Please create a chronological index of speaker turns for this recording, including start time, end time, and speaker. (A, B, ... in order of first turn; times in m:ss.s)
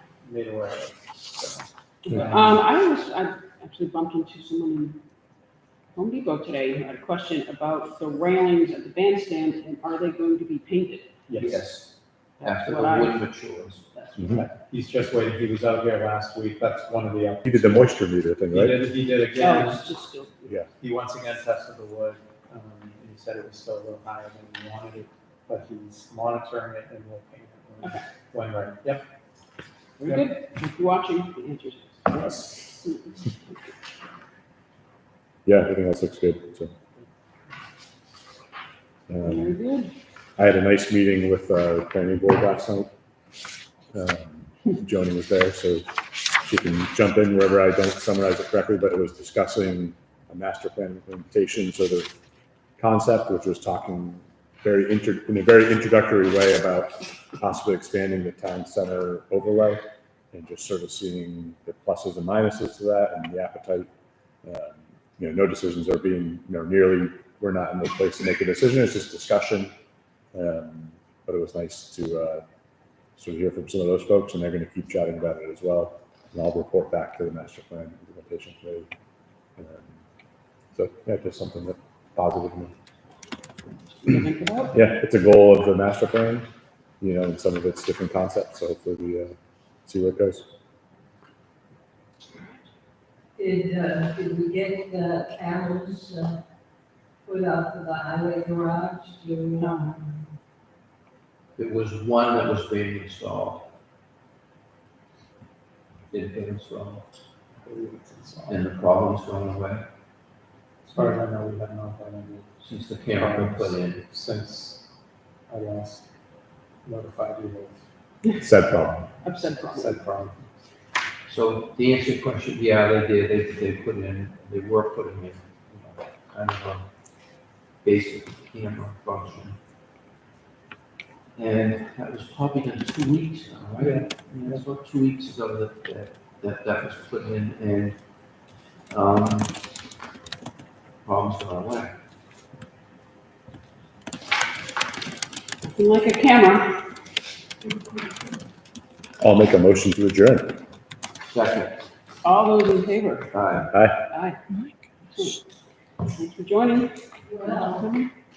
0:00.2-0:02.6 A
0:02.1-0:05.0 B
0:05.9-0:11.1 B
0:11.3-0:11.7 A
0:11.4-0:14.5 C
0:12.5-0:13.2 B
0:14.6-0:17.8 A
0:17.4-0:18.8 D
0:18.5-0:19.9 A
0:19.4-0:20.5 B
0:20.8-0:29.0 A
0:30.0-0:33.6 B
0:32.1-0:32.6 D
0:35.4-0:36.7 D
0:39.1-0:39.5 D
0:39.2-0:39.9 B
0:40.4-0:42.9 D
0:43.9-0:52.1 D
0:52.8-1:03.9 D
1:04.4-1:09.7 D
1:10.3-1:12.4 D
1:13.2-1:18.9 D
1:19.6-1:19.9 D
1:20.7-1:22.7 D
1:24.0-1:24.8 B
1:24.7-1:26.5 D
1:27.0-1:29.3 D
1:29.8-1:30.4 D
1:33.4-1:36.4 E
1:37.2-1:40.2 E
1:39.6-1:40.0 B
1:41.6-1:43.7 C
1:46.1-1:47.1 C
1:47.6-1:48.7 A
1:48.5-1:49.9 C
1:50.8-1:54.8 A
1:52.6-1:54.0 C
1:55.5-1:56.1 A
1:56.8-1:57.8 A
1:58.4-1:59.1 D
1:59.2-2:00.0 B
1:59.7-2:00.5 A
2:01.3-2:06.9 C
2:07.8-2:09.6 C
2:11.4-2:18.0 C
2:13.8-2:14.6 A
2:18.9-2:19.6 C
2:21.0-2:22.0 C
2:25.6-2:26.8 B
2:29.2-2:30.6 D
2:31.3-2:31.8 C
2:32.2-2:34.4 B
2:33.3-2:33.7 C
2:33.7-2:34.0 D
2:35.1-2:35.4 B
2:36.1-2:38.1 B
2:37.3-2:37.9 E